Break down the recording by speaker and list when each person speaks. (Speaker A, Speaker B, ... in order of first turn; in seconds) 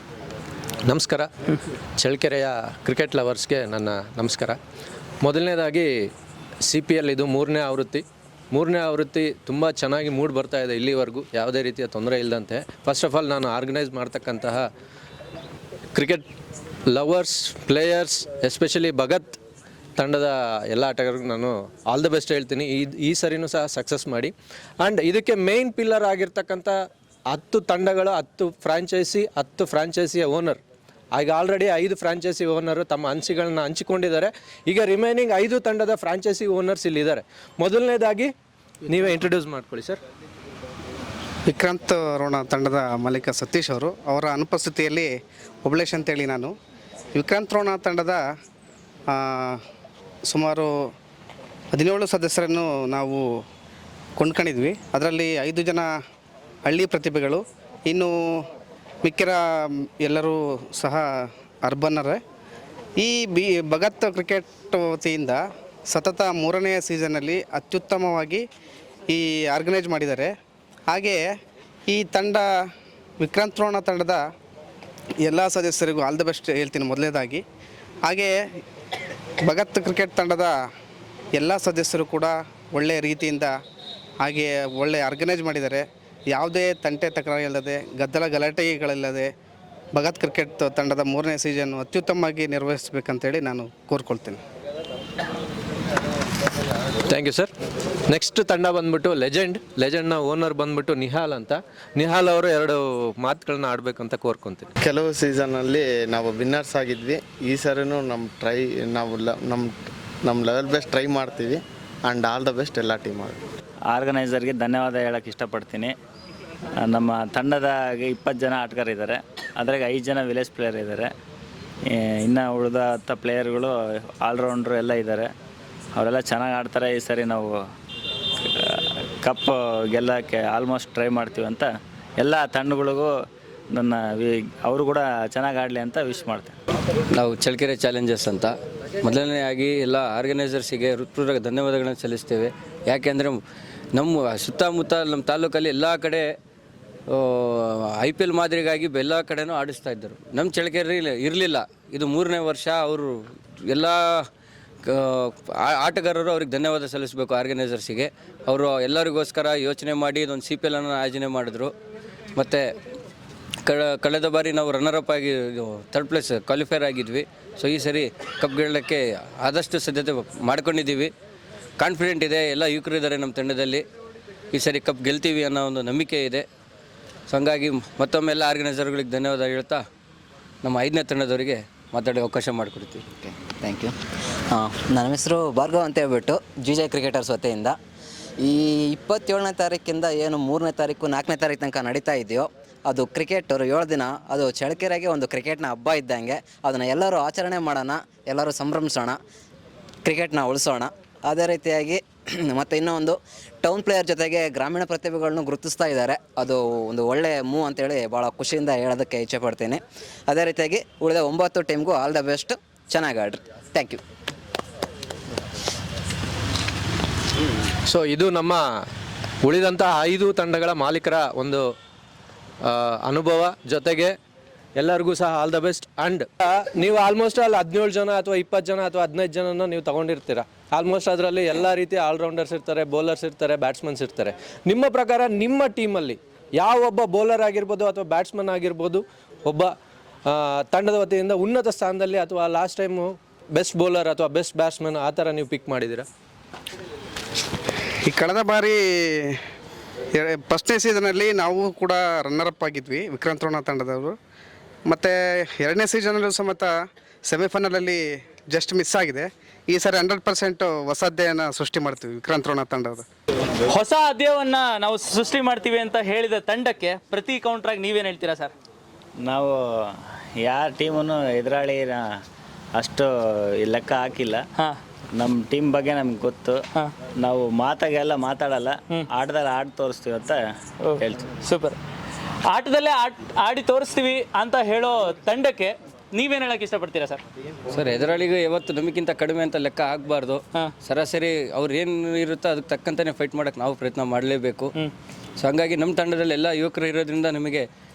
Speaker A: 0.9-1.3, 2.0-4.6, 5.2-5.9, 6.7-14.7, 15.9-16.3, 16.9-19.4, 20.0-26.7, 27.3-30.6, 31.2-38.3, 38.9-40.0, 97.1-97.5, 98.1-104.7, 217.9-218.6, 219.4-221.7, 222.6-224.1, 224.8-239.7, 240.3-246.1
Speaker B: 41.5-45.1, 45.6-46.5, 47.2-48.2, 49.1-49.6, 50.3-50.7, 51.7-53.2, 54.2-55.9, 56.7-58.1, 59.0-59.4, 60.0-61.0, 61.6-62.2, 63.0-65.4, 65.9-68.4, 69.1-70.3, 70.9-71.2, 71.9-72.5, 73.2-74.2, 75.2-77.4, 78.1-78.3, 79.5-80.5, 81.4-83.5, 84.2-89.3, 90.0-94.4, 248.1-249.4, 250.2-254.1, 254.9-256.7, 257.3-263.1
Speaker C: 104.8-113.4
Speaker D: 113.9-115.9, 116.8-121.1, 121.9-125.3, 126.0-127.6, 128.4-133.1, 133.7-136.6, 269.2-272.2, 272.8-274.4, 275.1-276.6, 277.2-280.4, 281.0-281.3
Speaker E: 137.1-143.4, 143.9-146.3, 147.1-154.2, 154.8-161.7, 162.4-162.7, 163.7-171.1, 171.8-173.8, 174.5-176.4, 177.3-179.8, 180.6-183.1, 287.7-294.7, 295.4-297.7
Speaker F: 183.3-184.0, 184.5-187.8, 188.4-199.2, 200.0-214.0
Speaker G: 263.7-268.5, 280.8-281.8, 282.5-287.2